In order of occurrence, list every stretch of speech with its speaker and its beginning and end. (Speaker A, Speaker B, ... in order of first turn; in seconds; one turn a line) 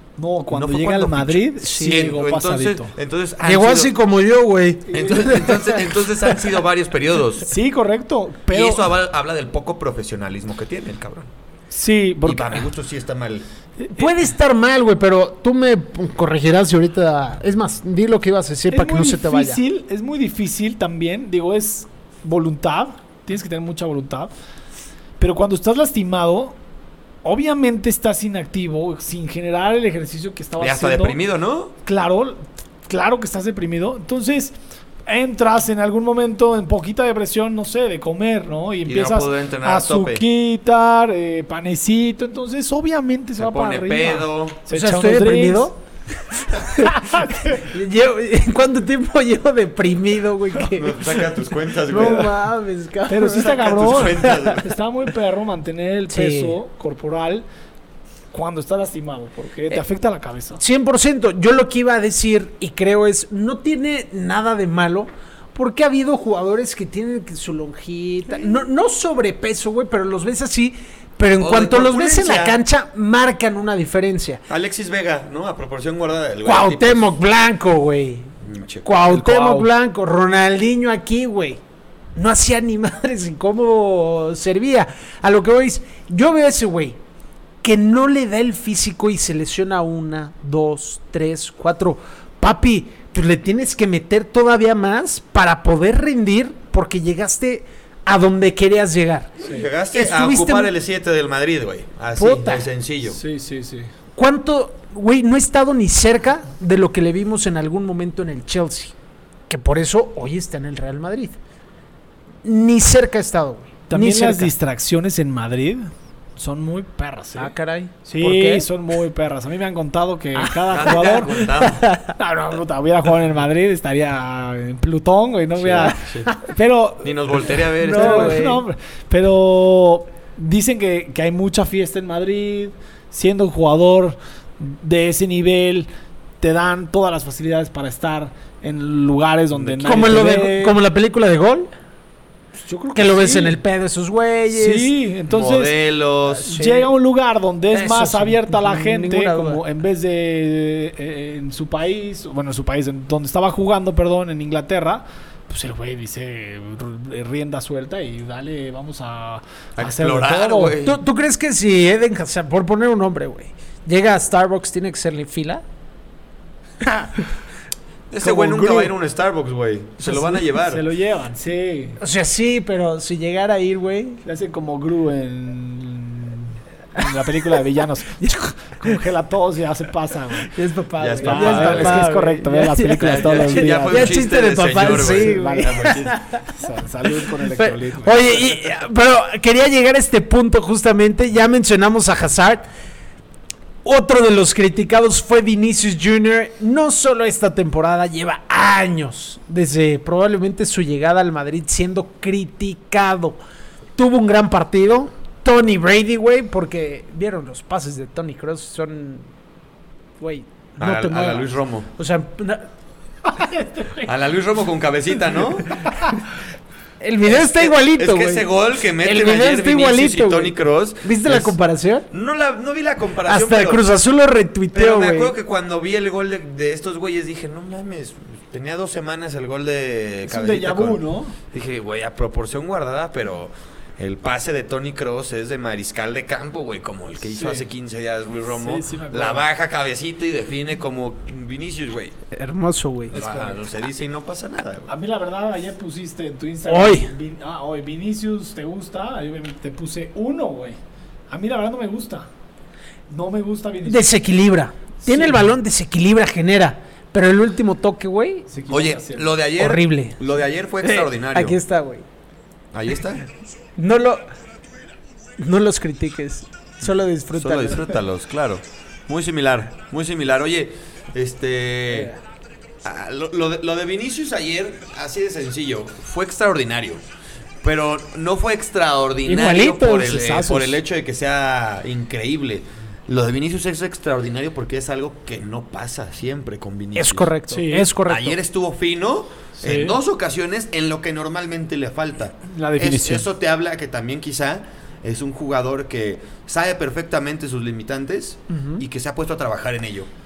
Speaker A: 0.2-2.9
Speaker B: 0.5-4.0
Speaker C: 1.6-2.1
Speaker C: 3.5-5.8
Speaker A: 4.9-5.6
Speaker B: 4.9-7.5
Speaker A: 7.5-8.9
Speaker B: 8.5-11.3
Speaker A: 11.7-12.7
Speaker B: 12.2-13.4
Speaker A: 13.8-14.2
Speaker C: 13.9-19.6
Speaker A: 18.7-24.3
Speaker A: 25.2-26.6
Speaker A: 27.2-31.2
Speaker B: 30.6-31.7
Speaker A: 31.9-45.7
Speaker B: 38.9-40.2
Speaker B: 43.4-44.6
Speaker C: 44.7-51.3
Speaker A: 46.8-47.6
Speaker B: 50.7-52.3
Speaker C: 51.8-54.5
Speaker A: 51.9-52.3
Speaker A: 53.1-57.5
Speaker B: 53.3-54.7
Speaker C: 56.1-56.6
Speaker A: 58.3-60.6
Speaker C: 60.6-74.4
Speaker B: 71.4-72.6
Speaker B: 74.5-77.2
Speaker C: 76.4-78.3
Speaker B: 78.4-79.7
Speaker C: 78.8-81.6
Speaker C: 82.2-87.0
Speaker C: 87.6-99.3
Speaker B: 99.4-103.2
Speaker C: 99.9-100.7
Speaker C: 102.2-102.7
Speaker A: 103.2-103.9
Speaker C: 104.2-109.0
Speaker C: 109.5-111.4
Speaker C: 112.4-114.5
Speaker A: 113.9-117.5
Speaker C: 117.4-118.7
Speaker A: 118.1-121.6
Speaker C: 120.4-122.1
Speaker B: 120.7-121.8
Speaker A: 122.1-135.9
Speaker B: 125.6-126.3
Speaker C: 125.8-126.5
Speaker B: 127.0-128.5
Speaker C: 127.8-128.6
Speaker A: 136.4-140.8
Speaker B: 139.5-140.2
Speaker C: 139.8-141.7
Speaker A: 142.6-143.6
Speaker C: 142.9-144.9
Speaker A: 144.5-145.8
Speaker B: 145.3-146.5
Speaker C: 146.4-146.9
Speaker A: 146.5-160.8
Speaker C: 147.7-149.6
Speaker B: 159.8-161.0
Speaker C: 160.8-165.6
Speaker B: 168.1-170.8
Speaker A: 168.2-168.9
Speaker A: 170.0-172.0
Speaker C: 172.0-174.2
Speaker A: 174.2-180.5
Speaker C: 177.0-177.6
Speaker C: 178.2-179.0
Speaker C: 180.4-186.4
Speaker B: 181.0-182.1
Speaker A: 181.2-188.6
Speaker B: 183.0-186.1
Speaker C: 187.2-192.7
Speaker C: 193.8-203.4
Speaker C: 204.0-209.3
Speaker C: 210.2-212.7
Speaker B: 210.8-211.9
Speaker A: 213.4-214.0
Speaker B: 214.0-215.8
Speaker C: 217.0-218.5
Speaker B: 217.2-221.6
Speaker C: 219.0-222.1
Speaker B: 222.1-223.9
Speaker C: 223.3-225.3
Speaker B: 224.7-231.0
Speaker A: 230.3-231.4
Speaker B: 231.5-242.2
Speaker A: 237.4-237.7
Speaker A: 238.5-239.4
Speaker C: 242.3-243.2
Speaker A: 243.1-243.6
Speaker B: 243.1-244.9
Speaker A: 244.9-250.8
Speaker C: 246.7-247.1
Speaker A: 251.3-252.3
Speaker A: 253.1-254.1
Speaker C: 253.8-258.5
Speaker A: 255.1-255.5
Speaker A: 258.5-259.3
Speaker B: 258.7-261.6
Speaker C: 259.6-260.2
Speaker C: 260.8-262.1
Speaker B: 262.7-263.3
Speaker C: 263.8-264.3
Speaker C: 265.4-267.9
Speaker B: 267.4-272.1
Speaker C: 271.9-272.2
Speaker B: 272.8-277.0
Speaker B: 277.6-287.3
Speaker C: 279.3-280.8
Speaker C: 286.9-288.4
Speaker A: 287.5-287.9
Speaker B: 288.1-300.1
Speaker A: 289.6-290.0
Speaker A: 292.5-293.3
Speaker C: 298.5-298.8